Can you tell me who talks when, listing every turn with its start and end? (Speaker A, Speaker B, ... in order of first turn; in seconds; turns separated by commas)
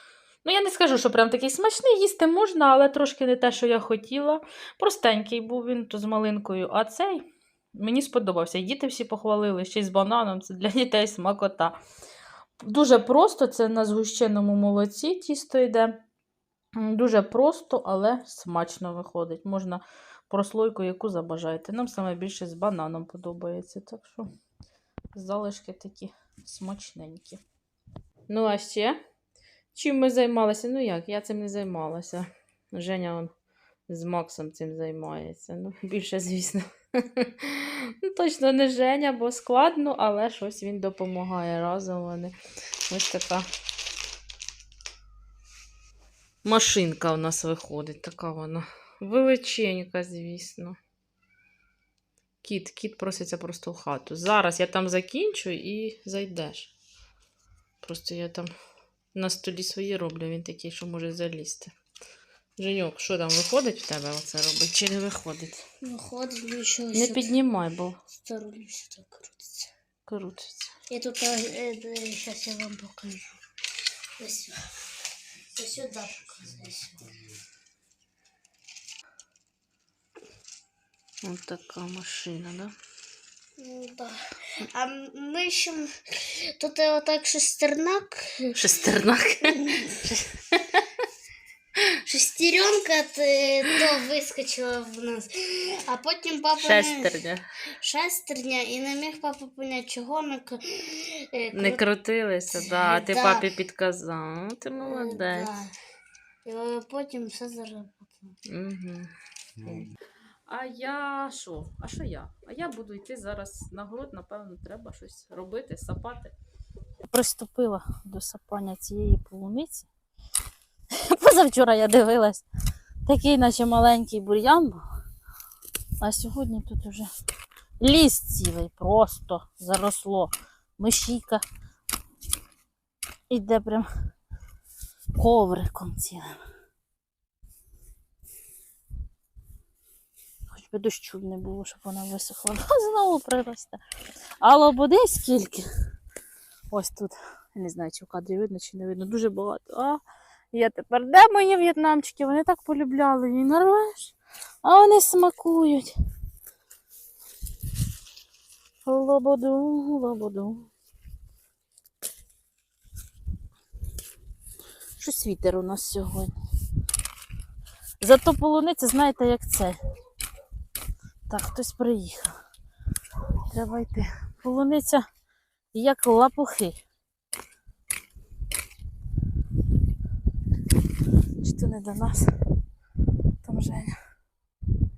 Speaker A: 0.4-11.8, Speaker A: 12.6-16.0, Speaker A: 16.8-24.3, Speaker A: 25.1-27.4, Speaker A: 28.3-29.0, Speaker A: 29.7-33.3, Speaker A: 33.9-42.3, Speaker A: 42.9-43.5, Speaker A: 46.4-50.8, Speaker A: 52.4-56.7, Speaker A: 57.8-58.5, Speaker A: 59.1-61.7, Speaker A: 62.6-65.6, Speaker B: 65.8-67.3, Speaker A: 66.9-68.0, Speaker B: 68.2-69.7, Speaker A: 70.1-70.7, Speaker B: 70.9-73.3, Speaker B: 74.2-74.7, Speaker B: 75.5-77.1, Speaker A: 81.2-82.7, Speaker B: 83.6-88.5, Speaker A: 88.5-90.9, Speaker B: 89.6-89.9, Speaker B: 92.0-97.1, Speaker A: 96.6-97.5, Speaker B: 97.8-101.8, Speaker A: 101.5-105.5, Speaker B: 102.6-103.4, Speaker B: 104.9-105.7, Speaker B: 106.4-108.3, Speaker A: 108.5-109.1, Speaker A: 110.5-116.3, Speaker A: 117.1-119.9, Speaker A: 121.0-122.5, Speaker A: 123.0-124.8, Speaker A: 126.0-127.1, Speaker A: 127.8-131.4, Speaker A: 133.3-133.9, Speaker A: 135.2-136.3, Speaker A: 140.5-143.8, Speaker A: 144.4-145.7, Speaker A: 146.7-150.0, Speaker A: 150.5-155.9, Speaker A: 158.8-160.7, Speaker A: 165.0-166.3, Speaker A: 168.0-169.8, Speaker A: 171.3-172.3, Speaker A: 173.5-175.0, Speaker A: 175.7-176.8, Speaker A: 181.4-182.3, Speaker A: 183.4-183.9